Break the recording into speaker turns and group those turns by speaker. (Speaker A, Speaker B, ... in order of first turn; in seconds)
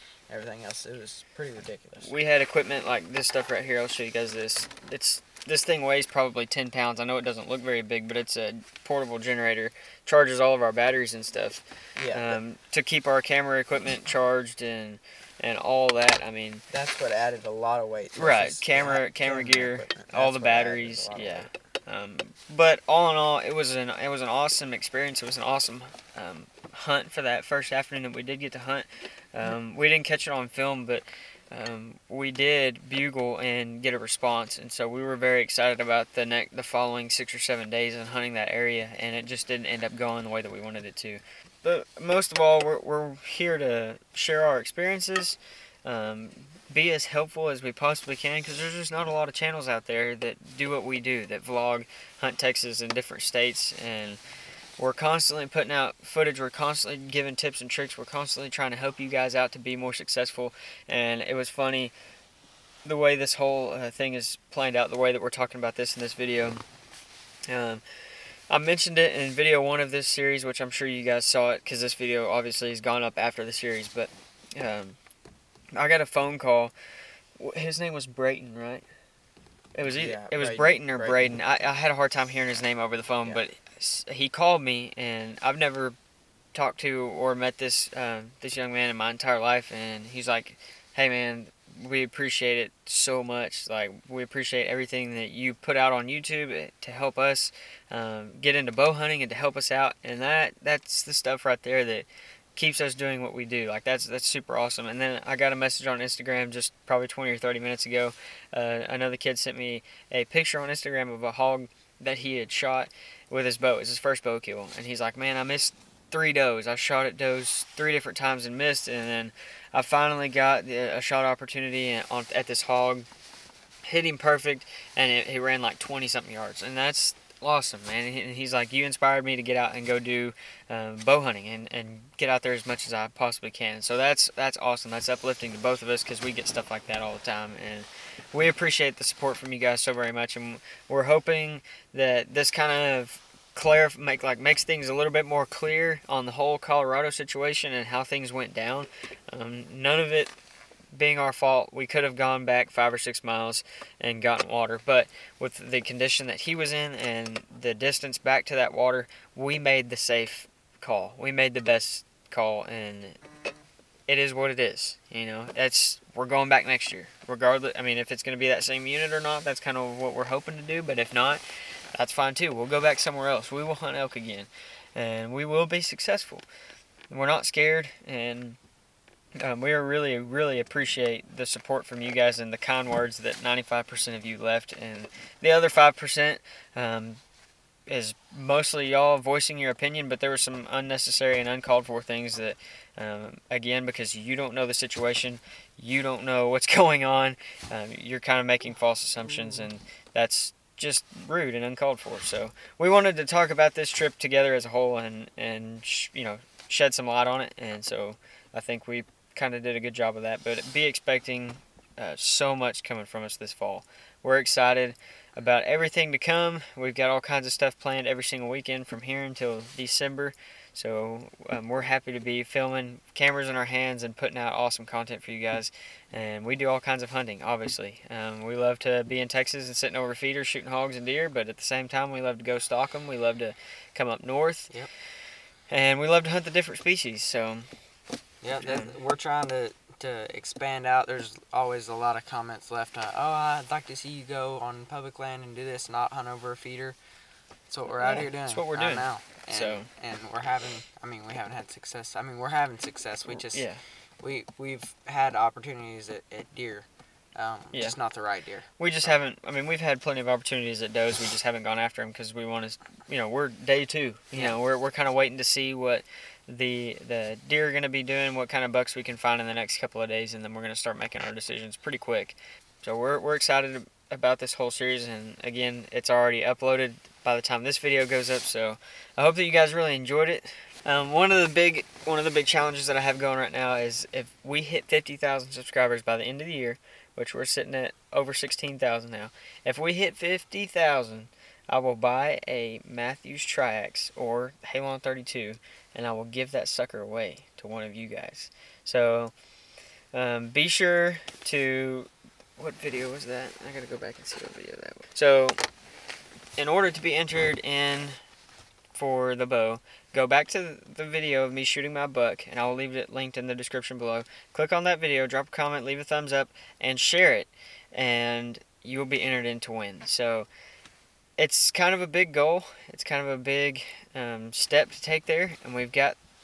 Speaker A: 0.3-2.1, 12.0-12.4, 16.7-21.5, 79.8-81.4, 238.4-247.0, 247.7-253.7, 254.2-258.7, 264.3-264.6
Speaker B: 2.0-16.6, 18.2-54.2, 54.8-61.9, 62.9-66.6, 67.5-67.8, 68.5-75.0, 75.7-76.7, 77.4-78.8, 79.8-86.0, 86.5-123.1, 123.8-150.3, 150.9-163.2, 164.1-171.4, 171.9-176.4, 177.1-178.6, 179.4-187.2, 187.9-234.8, 235.7-237.7, 238.6-238.9, 248.0-249.9, 253.3-253.8, 258.8-299.3, 300.1-305.6, 306.6-308.2, 308.9-320.5, 321.4-326.2